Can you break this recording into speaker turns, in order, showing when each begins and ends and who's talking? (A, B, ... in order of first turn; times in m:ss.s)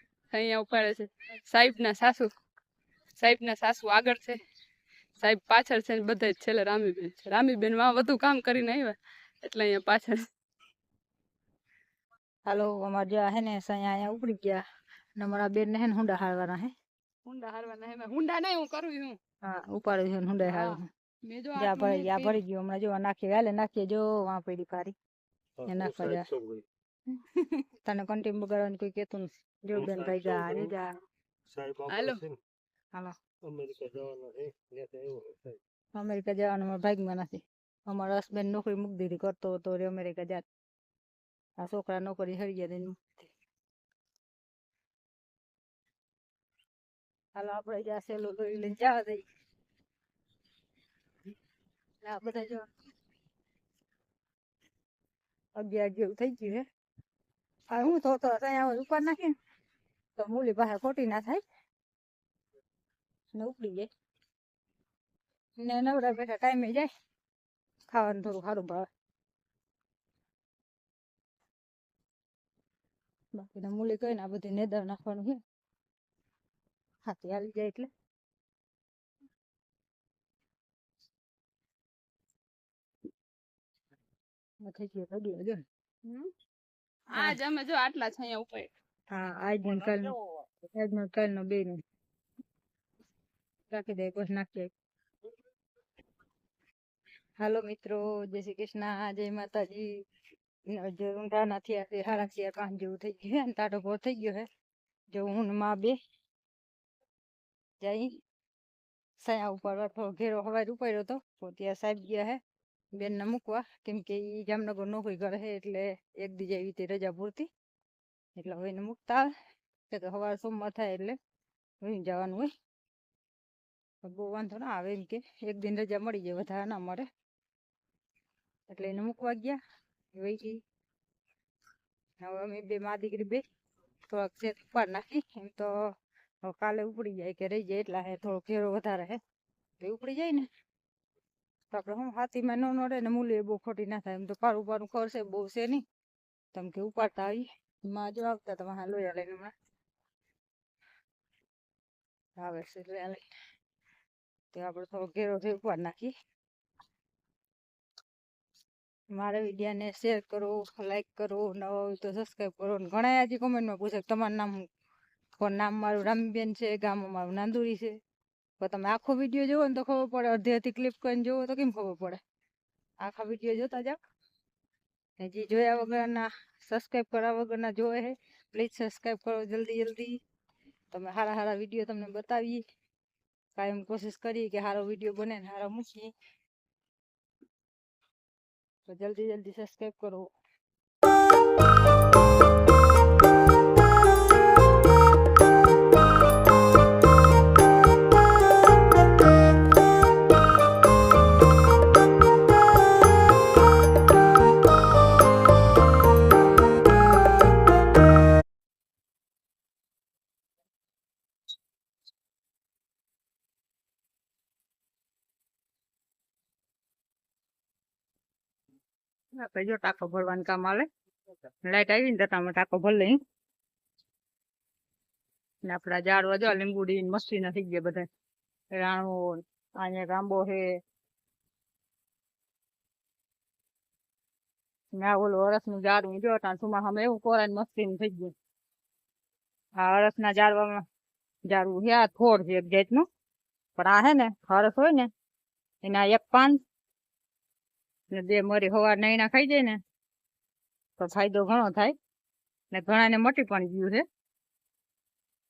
0:00.3-0:02.3 A
0:03.2-0:04.4 A
0:05.2-0:10.3 A
0:12.5-0:14.6 B
0:15.2-0:16.7 B
0:17.3-0:19.2 A
0:19.4-0:20.8 B
0:20.5-0:22.4 A
0:21.6-0:25.0 B
0:25.6-0:26.6 C
0:25.7-0:26.3 B
0:27.2-0:30.9 B
0:30.0-0:30.6 C
0:31.5-0:32.4 C
0:31.9-0:32.3 A
0:33.4-0:35.6 C
0:36.0-0:40.4 B
0:41.6-0:43.3 B
0:47.4-0:49.2 B
0:52.0-0:52.7 B
0:55.6-0:56.7 B
0:57.7-0:59.4 B
1:00.2-1:01.4 B
1:03.3-1:03.9 B
1:05.6-1:06.9 B
1:07.9-1:08.9 B
1:13.4-1:15.4 B
1:17.1-1:17.9 B
1:24.6-1:25.6 B
1:26.0-1:26.3 A
1:27.1-1:27.4 B
1:27.1-1:28.7 A
1:29.1-1:30.2 B
1:30.7-1:31.8 B
1:33.7-1:34.7 B
1:37.4-1:39.9 B
1:40.7-1:44.5 B
1:45.1-1:46.0 B
1:47.8-1:48.1 B
1:49.2-1:52.4 B
1:53.0-1:57.5 B
1:58.4-1:59.3 B
1:59.9-2:01.2 B
2:01.8-2:02.5 B
2:04.0-2:07.1 B
2:08.7-2:09.6 B
2:10.2-2:10.6 B
2:12.2-2:13.4 B
2:14.1-2:15.7 B
2:16.4-2:19.2 B
2:19.8-2:20.5 B
2:21.7-2:25.8 B
2:26.5-2:29.5 B
2:32.4-2:33.3 B
2:34.5-2:36.1 B
2:39.1-2:44.6 B
2:45.4-2:48.0 B
2:48.6-2:52.2 B
2:53.0-2:54.0 B
2:55.2-3:00.2 B
3:00.9-3:02.6 B
3:03.6-3:06.1 B
3:08.9-3:10.3 B
3:39.4-3:40.9 B
3:41.6-3:43.2 B
3:45.6-3:48.1 B
3:48.8-3:50.7 B
3:55.0-3:58.3 B
3:59.8-4:00.8 B
4:01.5-4:03.0 B
4:03.8-4:05.1 B
4:05.8-4:06.6 B
4:08.1-4:09.8 B
4:11.0-4:12.0 B
4:12.7-4:14.0 B